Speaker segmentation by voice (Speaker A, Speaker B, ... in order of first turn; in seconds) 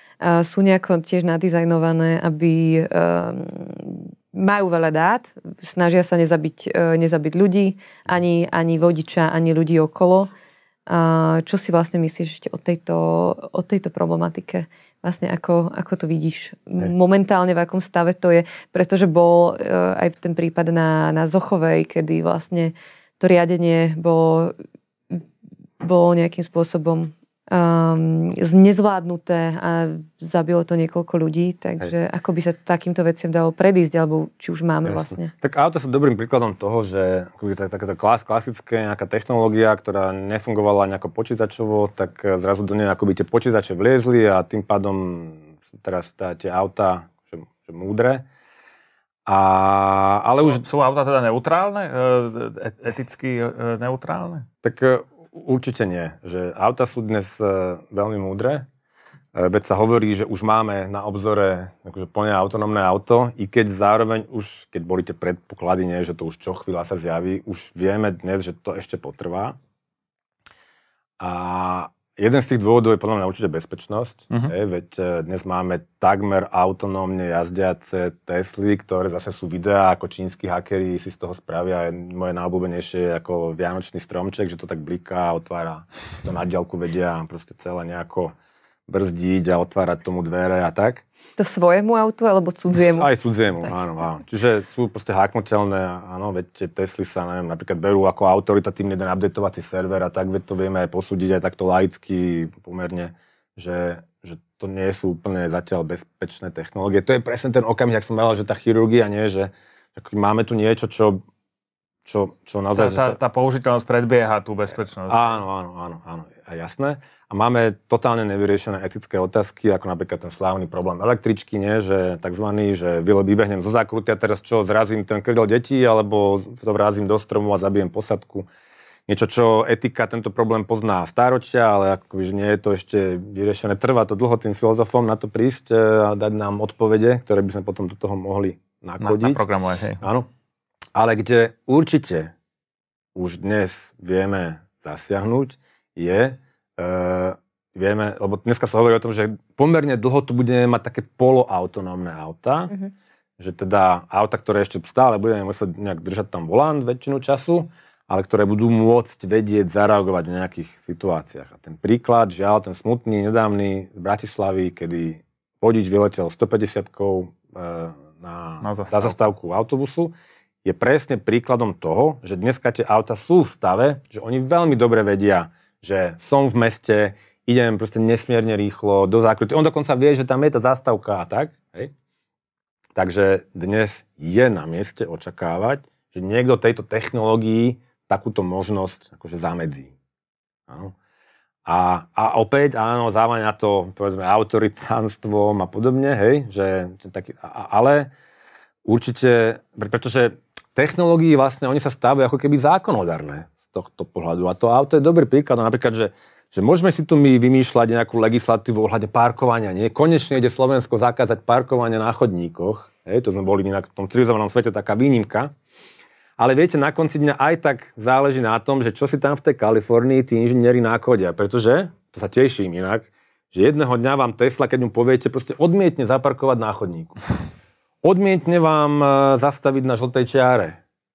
Speaker A: 0.2-10.3, 10.9-24.6, 25.8-35.3, 91.4-93.1
Speaker B: 34.9-48.2, 49.2-50.6, 54.6-58.7, 59.3-69.5, 71.2-88.3, 88.9-91.0, 93.0-111.2, 112.0-113.2, 115.1-128.5, 129.1-139.4, 140.0-140.3, 140.9-142.3, 143.1-152.7, 153.4-181.9, 182.9-189.9, 190.7-190.9, 191.6-198.1, 198.8-215.5, 216.4-227.2, 228.0-230.8
Speaker C: 50.4-54.5, 112.7-115.3, 139.0-140.0, 168.6-169.1